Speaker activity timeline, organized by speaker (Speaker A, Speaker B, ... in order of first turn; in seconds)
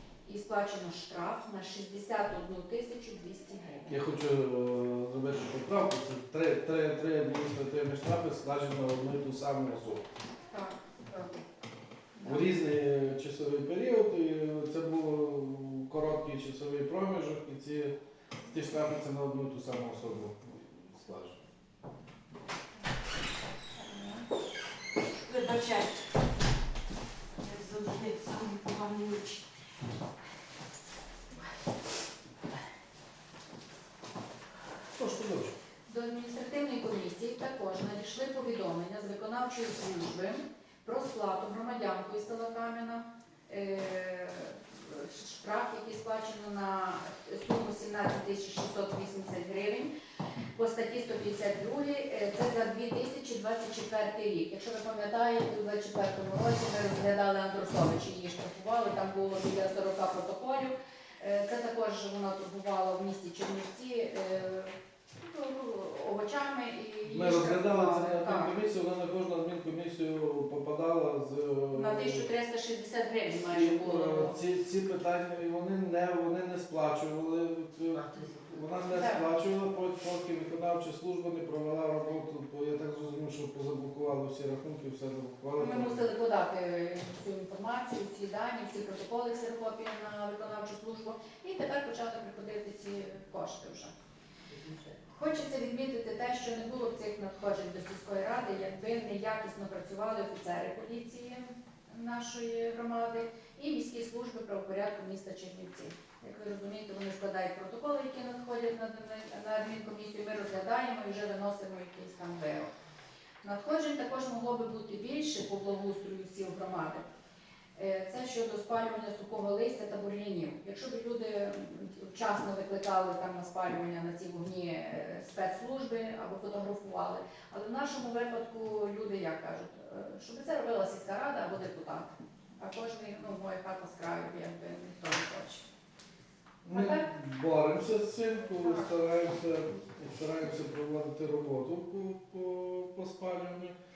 Speaker A: 0.2-3.9, 10.5-11.4, 12.2-12.5, 23.8-24.2, 35.9-49.9, 50.5-68.6, 71.7-74.4, 78.9-79.2, 85.6-93.9, 94.9-112.7, 113.4-117.0, 117.8-135.7, 136.7-137.1
Speaker B: 3.9-10.0, 12.2-17.9, 18.5-21.4, 35.0-35.5, 67.1-72.3, 73.5-86.0, 136.6-143.7
Speaker C: 25.3-25.9, 27.4-29.4